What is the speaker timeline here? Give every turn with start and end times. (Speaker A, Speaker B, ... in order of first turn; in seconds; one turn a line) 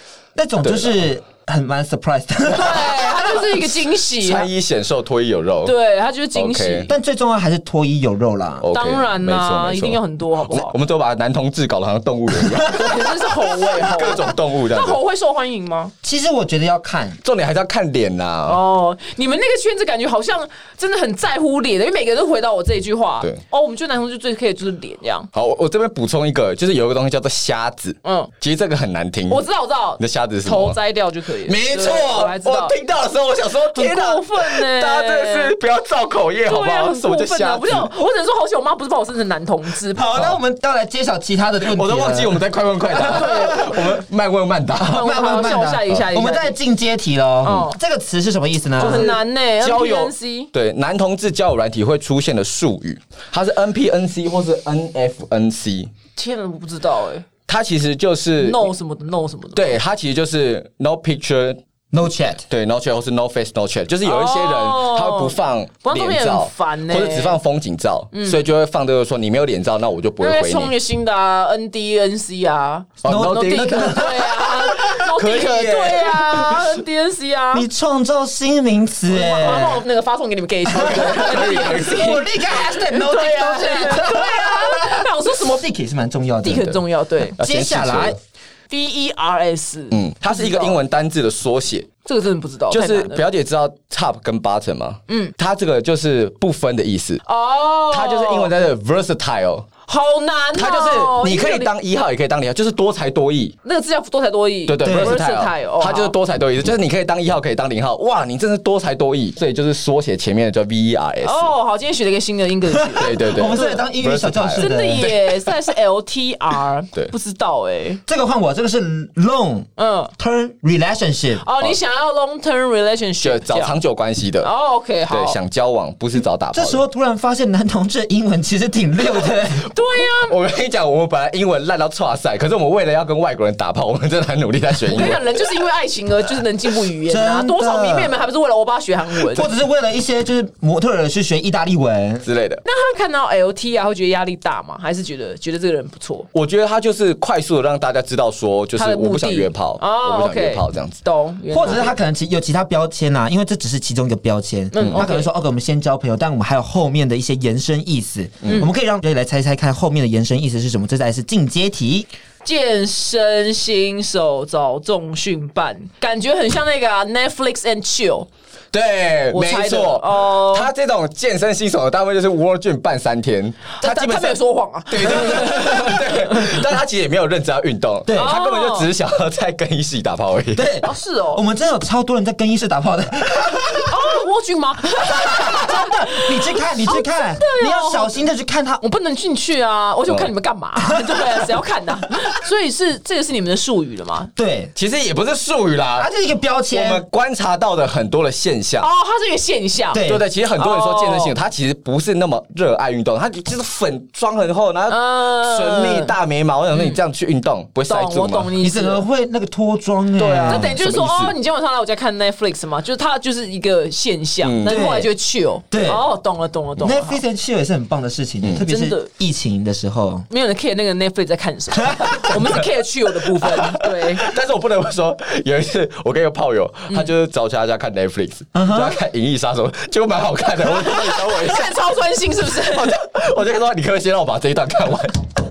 Speaker A: 0.3-3.7
Speaker B: 0.6-1.0
Speaker C: 2.5-4.5
Speaker B: 4.2-5.7
Speaker C: 5.6-6.9
Speaker B: 6.3-6.9
Speaker A: 6.9-8.7
Speaker B: 8.6-15.0
Speaker C: 8.7-10.8
Speaker A: 12.3-13.1
Speaker C: 12.6-15.9
Speaker A: 16.0-17.2
Speaker B: 17.2-18.6
Speaker C: 18.4-25.3
Speaker B: 25.3-29.4
Speaker C: 28.0-28.3
Speaker C: 29.3-32.7
Speaker B: 30.0-30.8
Speaker B: 31.4-37.9
Speaker C: 33.7-35.5
Speaker C: 36.4-40.0
Speaker A: 39.9-42.4
Speaker B: 41.6-46.0
Speaker C: 42.9-44.0
Speaker A: 43.0-43.8
Speaker C: 44.8-46.5
Speaker A: 44.9-49.1
Speaker C: 47.4-47.8
Speaker C: 48.8-50.5
Speaker B: 48.8-55.9
Speaker C: 56.1-57.3
Speaker B: 57.5-58.7
Speaker C: 58.4-59.8
Speaker B: 59.5-61.6
Speaker A: 61.9-62.5
Speaker B: 62.5-70.7
Speaker C: 64.0-67.4
Speaker C: 68.1-68.4
Speaker C: 70.2-77.7
Speaker B: 73.0-76.8
Speaker A: 73.0-74.9
Speaker A: 77.5-79.8
Speaker C: 79.1-85.7
Speaker A: 80.7-86.7
Speaker B: 80.8-82.2
Speaker C: 86.4-87.3
Speaker B: 87.3-88.2
Speaker A: 87.4-88.2
Speaker C: 88.7-90.8
Speaker B: 89.9-91.9
Speaker C: 92.0-93.2
Speaker B: 92.7-97.2
Speaker C: 95.1-95.3
Speaker C: 97.2-98.5
Speaker B: 97.9-99.7
Speaker C: 99.8-101.7
Speaker B: 100.5-103.5
Speaker C: 103.6-106.1
Speaker B: 104.7-111.5
Speaker A: 104.8-105.2
Speaker C: 111.2-113.9
Speaker A: 112.9-115.1
Speaker B: 113.0-115.2
Speaker C: 114.5-118.0
Speaker A: 118.1-121.5
Speaker C: 119.8-120.1
Speaker C: 121.4-123.7
Speaker B: 123.2-124.5
Speaker C: 124.4-125.4
Speaker B: 125.1-126.8
Speaker A: 126.5-129.7
Speaker C: 129.7-130.4
Speaker B: 130.1-135.4
Speaker C: 134.9-139.5
Speaker A: 137.1-138.1
Speaker A: 139.2-142.2
Speaker B: 142.2-142.6
Speaker C: 142.6-146.3
Speaker B: 146.3-151.0
Speaker C: 148.8-151.9
Speaker A: 151.5-162.1
Speaker C: 154.7-155.3
Speaker B: 154.8-155.1
Speaker B: 158.4-158.7
Speaker C: 158.4-158.7
Speaker C: 162.4-168.3
Speaker B: 168.7-180.7
Speaker C: 169.3-170.7
Speaker C: 173.8-176.6
Speaker A: 178.1-178.4
Speaker C: 178.2-178.9
Speaker A: 180.5-183.9
Speaker C: 180.8-181.4
Speaker C: 183.8-188.2
Speaker A: 185.0-188.8
Speaker C: 188.8-194.3
Speaker A: 190.9-191.4
Speaker A: 194.3-194.7
Speaker B: 194.7-196.1
Speaker A: 196.0-197.0
Speaker B: 196.7-198.9
Speaker C: 198.8-200.0
Speaker A: 199.9-200.2
Speaker B: 200.0-208.5
Speaker C: 200.6-201.3
Speaker C: 204.9-206.1
Speaker C: 206.7-207.0
Speaker C: 207.9-209.0
Speaker A: 208.6-210.8
Speaker B: 210.2-211.3
Speaker C: 210.3-217.2
Speaker B: 214.4-214.9
Speaker A: 214.6-215.1
Speaker A: 215.7-216.0
Speaker A: 216.8-220.3
Speaker B: 218.4-218.7
Speaker C: 218.6-219.1
Speaker C: 220.3-224.3
Speaker A: 221.8-222.3
Speaker B: 223.4-231.9
Speaker A: 228.5-229.0
Speaker C: 230.6-233.0
Speaker B: 232.5-235.2